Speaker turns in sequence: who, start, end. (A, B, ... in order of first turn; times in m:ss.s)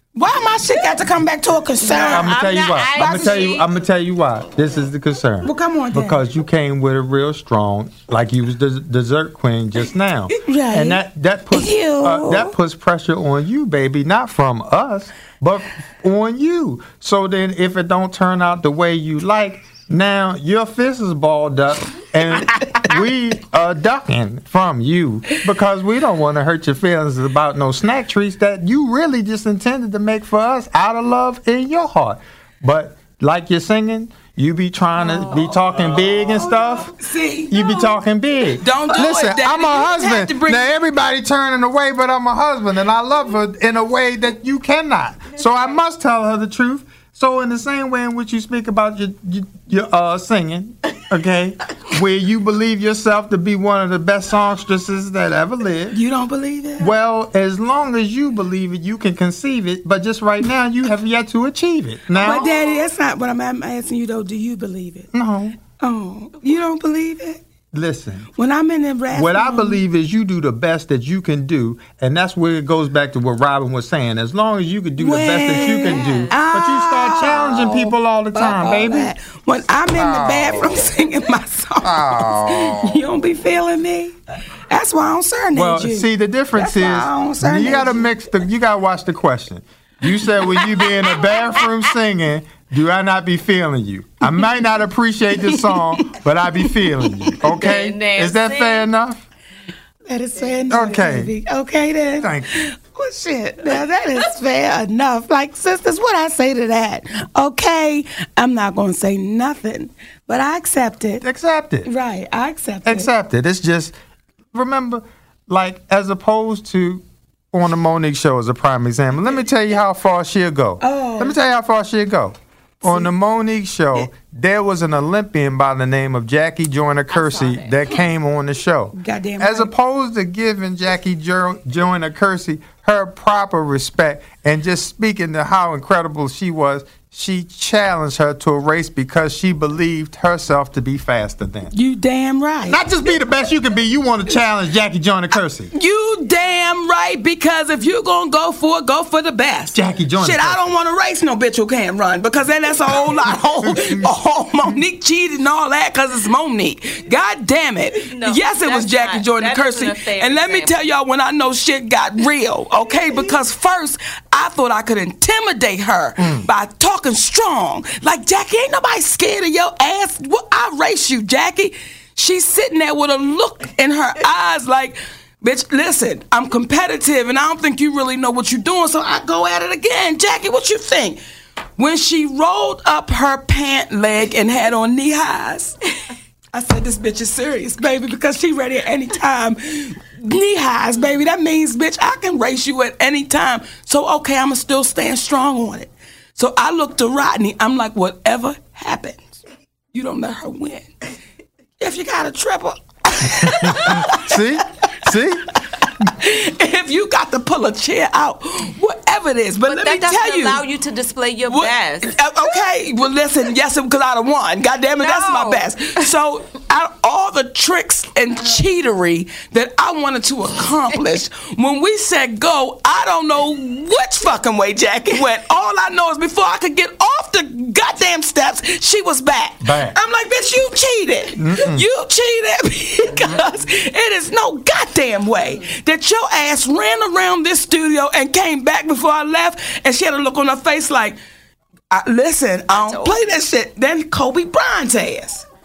0:00.2-0:03.6 A
0:01.8-0:03.7 B
0:02.1-0:37.0 C
0:05.4-0:06.2 A
0:10.4-0:12.6 A
0:35.0-0:37.6 A
0:37.5-0:56.0 C
0:38.6-0:40.7 A
0:55.9-0:56.9 A
0:56.8-1:02.6 C
1:02.1-1:05.1 A
1:05.1-1:05.6 C
1:05.8-1:07.4 A
1:07.7-1:08.3 C
1:08.4-1:09.8 A
1:09.1-1:19.2 C
1:15.0-1:24.2 A
1:15.7-1:16.3 B
1:19.9-1:20.9 C
1:21.8-1:23.0 C
1:24.7-1:28.1 A
1:25.5-1:39.2 C
1:35.4-1:37.1 A
1:37.4-1:38.9 B
1:40.1-1:51.2 A
1:40.7-1:41.3 C
1:42.2-1:42.6 C
1:51.2-1:51.9 C
1:51.8-1:53.1 A
1:52.8-1:54.0 C
1:54.5-2:21.7 C
2:00.8-2:01.4 A
2:02.8-2:03.1 A
2:07.1-2:07.9 B
2:09.0-2:09.7 A
2:21.7-2:22.8 A
2:22.7-2:25.7 C
2:25.7-3:01.2 A
2:29.7-2:30.6 C
2:33.1-2:34.8 C
2:38.1-2:40.8 B
2:46.2-2:46.5 C
3:01.8-3:05.8 A
3:06.5-3:19.4 A
3:19.9-3:20.9 A
3:21.8-3:24.4 A
3:23.6-3:25.5 C
3:26.0-3:30.7 A
3:29.6-3:32.2 B
3:31.5-4:01.2 A
3:35.0-3:36.0 B
3:49.6-3:50.0 C
3:51.4-3:51.8 C
4:01.9-4:05.4 A
4:02.7-4:03.2 B